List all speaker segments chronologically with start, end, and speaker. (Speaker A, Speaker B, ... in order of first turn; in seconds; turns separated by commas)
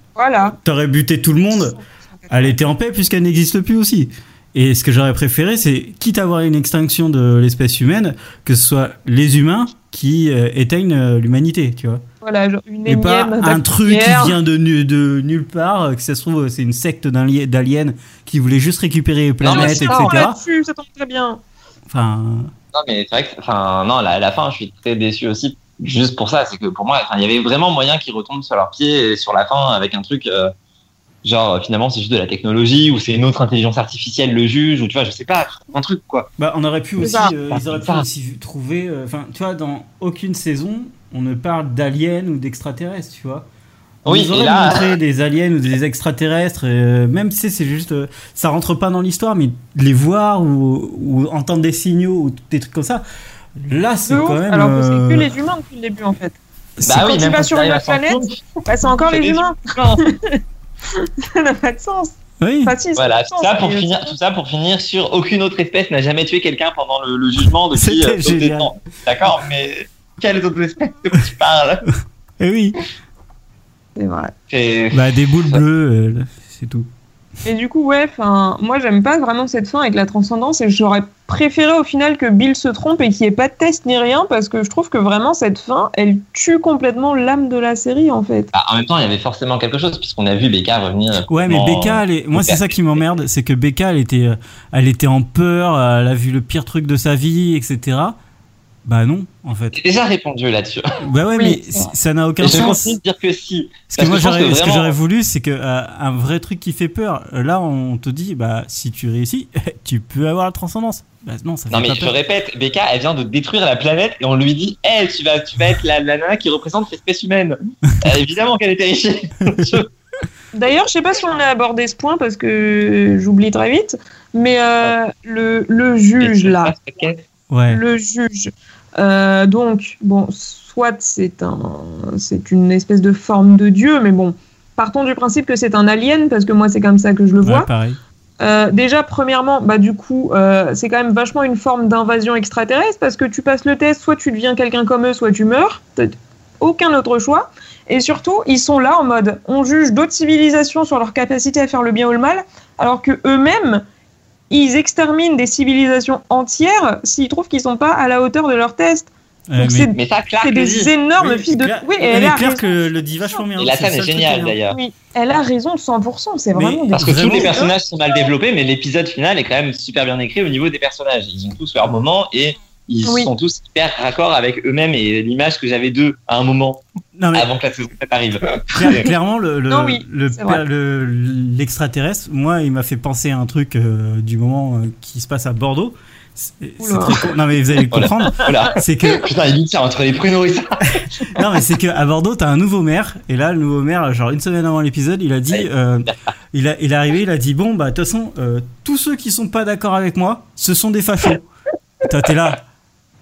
Speaker A: 0.1-0.6, Speaker B: 0.6-1.8, Speaker A: 1.6-2.5, Speaker B: 2.3-12.0, Speaker A: 12.2-14.3, Speaker B: 12.8-20.4, Speaker C: 19.4-20.2, Speaker A: 19.5-21.4, Speaker B: 21.9-22.5, Speaker C: 22.7-30.5, Speaker C: 31.2-36.3, Speaker B: 36.4-43.5, Speaker A: 37.0-37.3, Speaker C: 37.5-38.0, Speaker B: 44.0-53.0, Speaker C: 44.0-44.9, Speaker B: 53.6-55.3, Speaker A: 54.1-56.4, Speaker C: 56.8-60.0, Speaker A: 56.9-64.1, Speaker B: 62.4-62.7, Speaker C: 63.0-71.8, Speaker B: 67.7-68.7, Speaker B: 72.4-72.8, Speaker A: 74.0-74.3, Speaker C: 74.5-75.6, Speaker B: 74.9-76.9, Speaker A: 77.4-88.5, Speaker C: 88.5-93.0, Speaker B: 91.3-98.2, Speaker B: 98.8-99.8, Speaker C: 99.7-100.8, Speaker B: 101.0-103.0, Speaker A: 101.3-101.9, Speaker C: 102.4-104.9, Speaker B: 103.9-112.1, Speaker C: 111.7-119.9, Speaker B: 119.5-119.8, Speaker A: 120.5-126.7, Speaker C: 126.2-127.2, Speaker B: 127.5-127.8, Speaker A: 127.7-137.7, Speaker B: 137.4-138.0, Speaker A: 138.4-153.8, Speaker A: 154.5-162.8, Speaker B: 159.5-159.9, Speaker C: 159.9-160.9, Speaker B: 161.2-164.6, Speaker C: 163.6-164.8, Speaker A: 164.7-167.7, Speaker B: 166.5-167.6, Speaker C: 166.9-179.1, Speaker A: 173.1-173.3, Speaker B: 177.2-177.5, Speaker B: 178.7-189.2, Speaker A: 179.7-180.6, Speaker A: 186.8-187.3, Speaker C: 187.9-191.0, Speaker B: 191.0-201.4, Speaker C: 195.5-196.2, Speaker B: 202.0-202.6